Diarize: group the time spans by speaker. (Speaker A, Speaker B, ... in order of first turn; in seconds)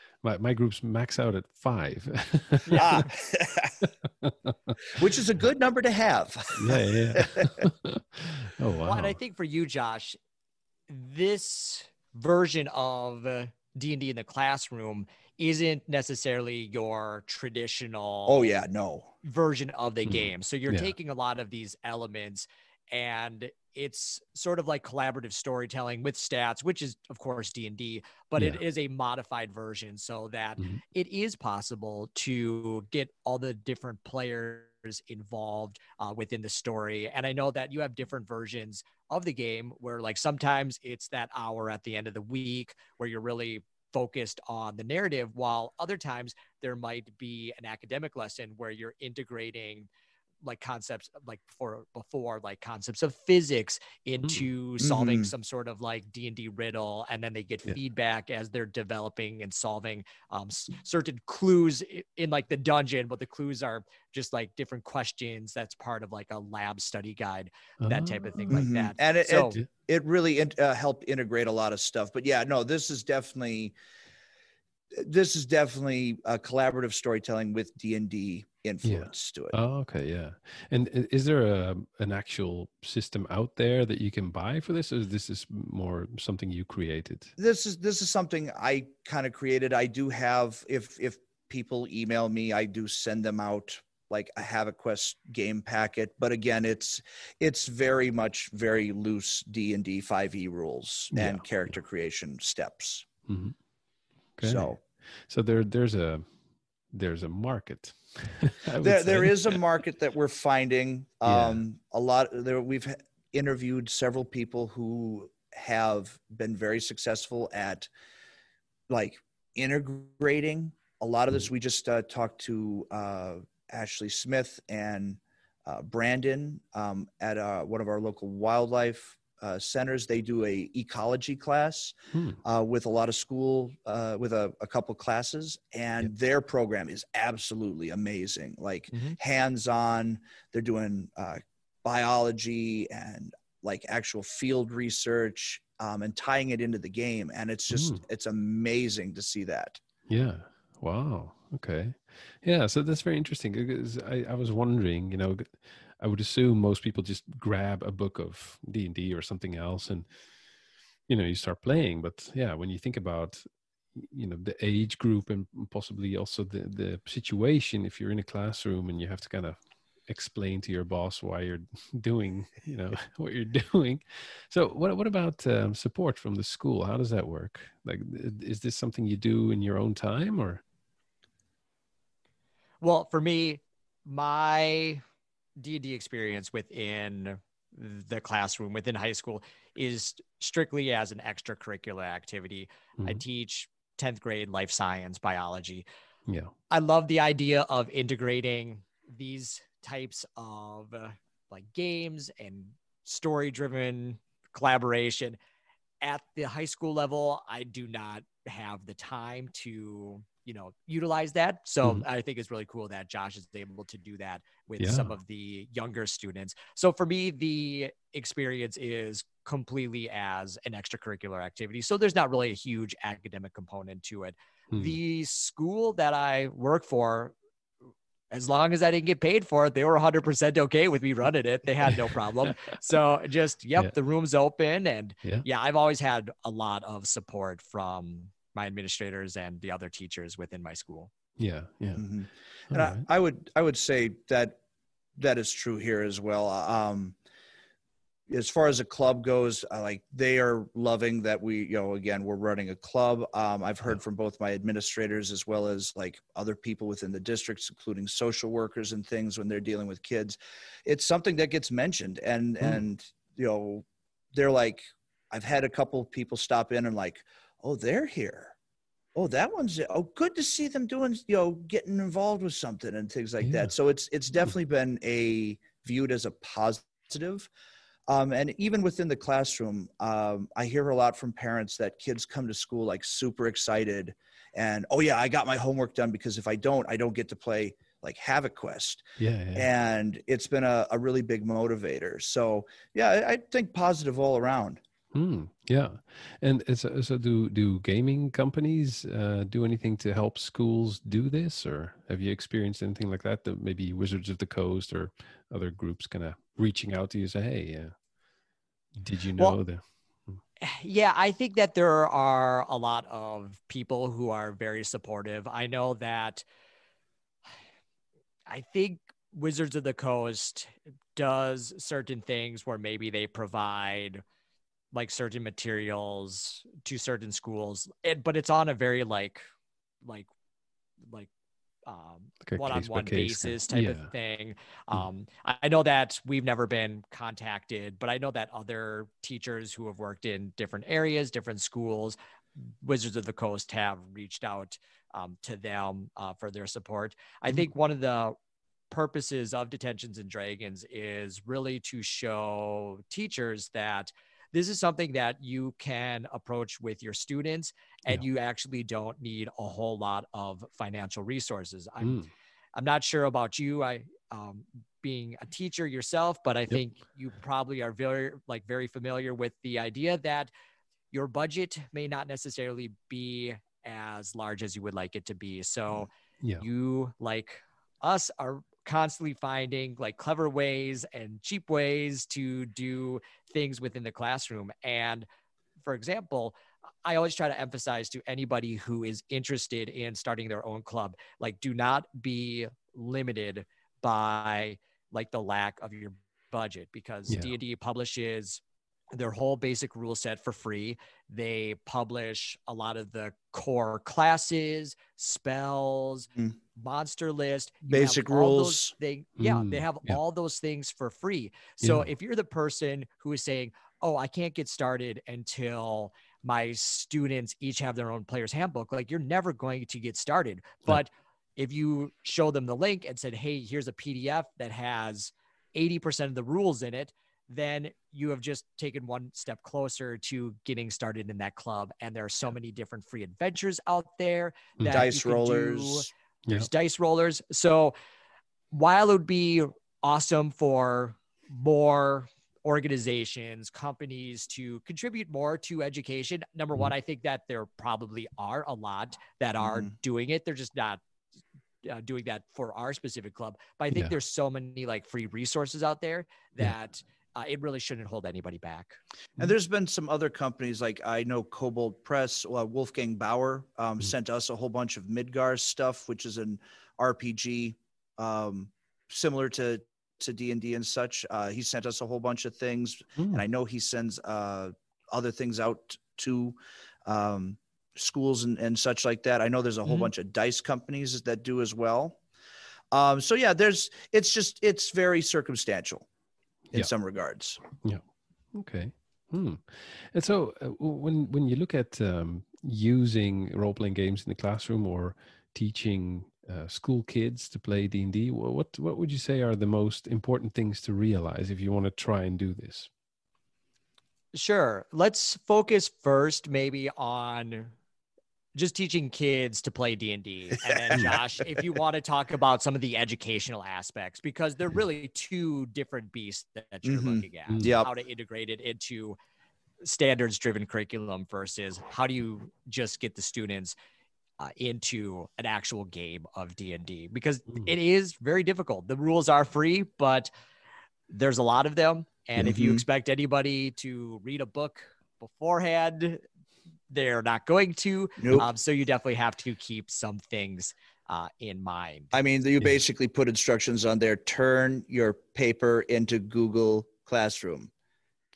Speaker A: 0.2-3.0, 4.2-5.0, 6.6-9.2, 20.1-20.9, 67.8-68.6, 78.8-87.3, 101.1-101.5, 103.3-103.6, 104.4-106.3, 106.9-109.6, 111.3-111.6, 132.1-132.4, 147.7-148.0, 150.1-160.1, 161.1-163.4, 163.9-180.6, 193.0-193.2, 214.8-215.2, 241.4-242.1, 242.7-243.1, 273.4-273.7, 289.2-289.7, 295.1-307.9, 309.0-310.4, 332.4-334.1, 362.0-362.3, 397.3-397.5, 409.4-410.2, 434.8-435.1, 473.2-473.4, 487.7-488.0, 488.5-502.9, 517.5-517.8
Speaker B: 2.7-3.9, 5.0-7.7, 18.3-19.1, 54.8-55.3, 68.5-73.8, 74.9-79.6, 87.4-103.1, 104.4-104.8, 108.8-117.9, 118.9-149.8, 242.0-244.6, 245.2-247.2, 248.3-268.6, 269.1-277.5, 278.1-294.8, 407.9-408.9, 434.9-436.1, 449.6-449.9, 459.4-482.2, 482.9-486.1, 486.7-487.6, 510.6-511.2, 516.8-517.9, 532.4-532.8, 538.2-538.5, 542.1-547.7
Speaker C: 8.8-10.2, 10.9-18.5, 19.2-49.9, 50.4-69.6, 182.8-185.0, 185.6-195.8, 196.7-205.4, 206.0-227.3, 228.3-241.1, 310.6-316.4, 318.5-324.2, 324.9-329.4, 331.0-331.3, 331.9-342.2, 342.8-348.4, 348.9-362.2, 362.8-370.5, 371.1-376.1, 376.6-385.3, 385.8-398.6, 399.1-437.9, 438.7-451.0, 451.9-459.0, 504.3-507.7, 508.6-519.2, 519.8-523.8, 524.4-530.3, 531.1-536.2, 536.9-542.2